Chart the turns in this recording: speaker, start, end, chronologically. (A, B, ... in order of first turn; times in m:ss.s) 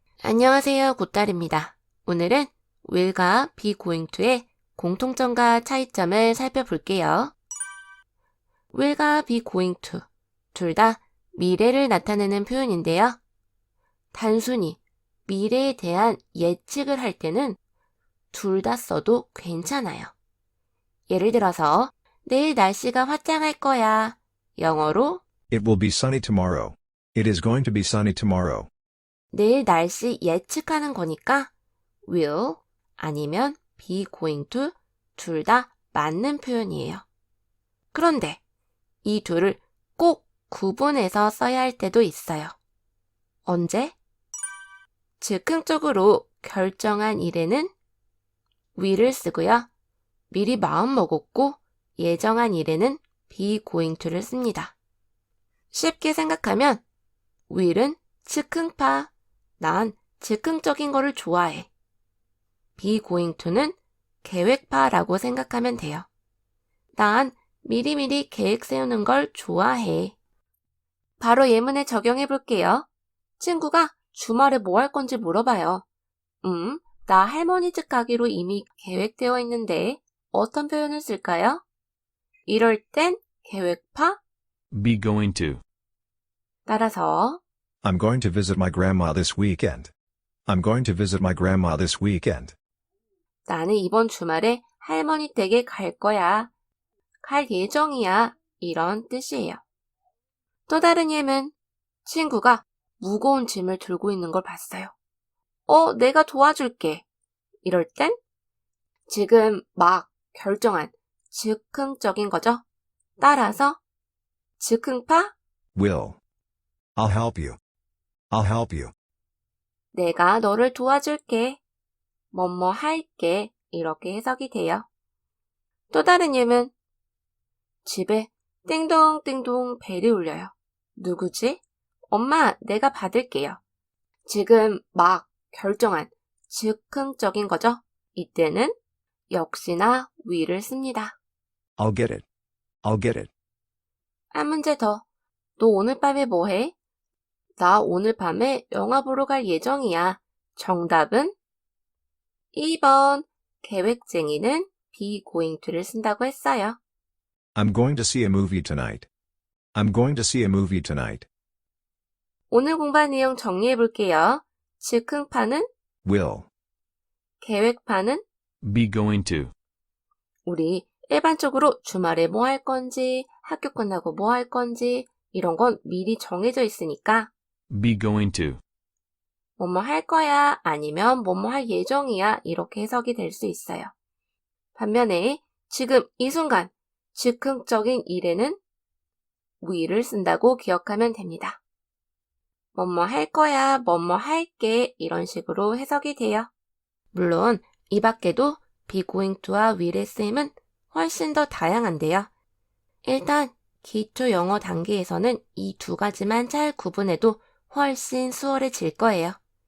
0:00.2-0:07.3 A
0:08.7-0:13.2 A
0:14.1-0:17.6 A
0:18.3-0:20.1 A
0:21.1-0:25.2 A
0:25.5-0:28.7 B
0:29.3-0:31.5 A
0:32.0-0:37.0 A
0:37.9-0:38.4 A
0:39.0-0:42.5 A
0:43.4-0:43.9 A
0:45.2-0:47.7 A
0:48.7-0:49.7 A
0:50.3-0:54.7 A
0:55.7-0:56.8 A
0:57.5-1:01.7 A
1:02.8-1:06.1 A
1:07.0-1:10.1 A
1:11.2-1:12.9 A
1:13.4-1:15.8 A
1:16.4-1:21.6 A
1:22.4-1:24.2 A
1:24.7-1:25.6 C
1:26.6-1:27.4 A
1:27.8-1:29.9 B
1:30.5-1:32.5 B
1:33.5-1:36.5 A
1:37.2-1:39.6 A
1:40.7-1:41.5 A
1:42.0-1:44.9 A
1:45.7-1:47.0 A
1:47.6-1:48.2 A
1:49.1-1:52.6 A
1:53.2-1:53.8 A
1:54.6-1:55.3 A
1:55.8-1:56.2 B
1:57.0-1:57.6 B
1:58.3-1:58.9 B
1:59.9-2:01.6 A
2:02.3-2:04.8 A
2:05.9-2:06.7 A
2:07.8-2:13.6 A
2:14.2-2:18.7 A
2:19.3-2:21.1 A
2:21.8-2:22.2 B
2:22.8-2:23.3 B
2:24.3-2:25.0 A
2:25.6-2:26.7 A
2:27.6-2:31.3 A
2:32.5-2:36.8 A
2:37.6-2:39.1 B
2:39.7-2:41.3 B
2:42.5-2:45.7 A
2:46.0-2:46.5 B
2:47.4-2:48.2 A
2:48.6-2:49.5 C
2:50.4-2:57.3 A
2:57.7-2:58.6 C
2:59.6-3:03.9 A
3:04.7-3:08.6 A
3:09.6-3:11.6 A
3:12.7-3:16.5 A
3:17.1-3:22.3 A
3:23.0-3:29.4 A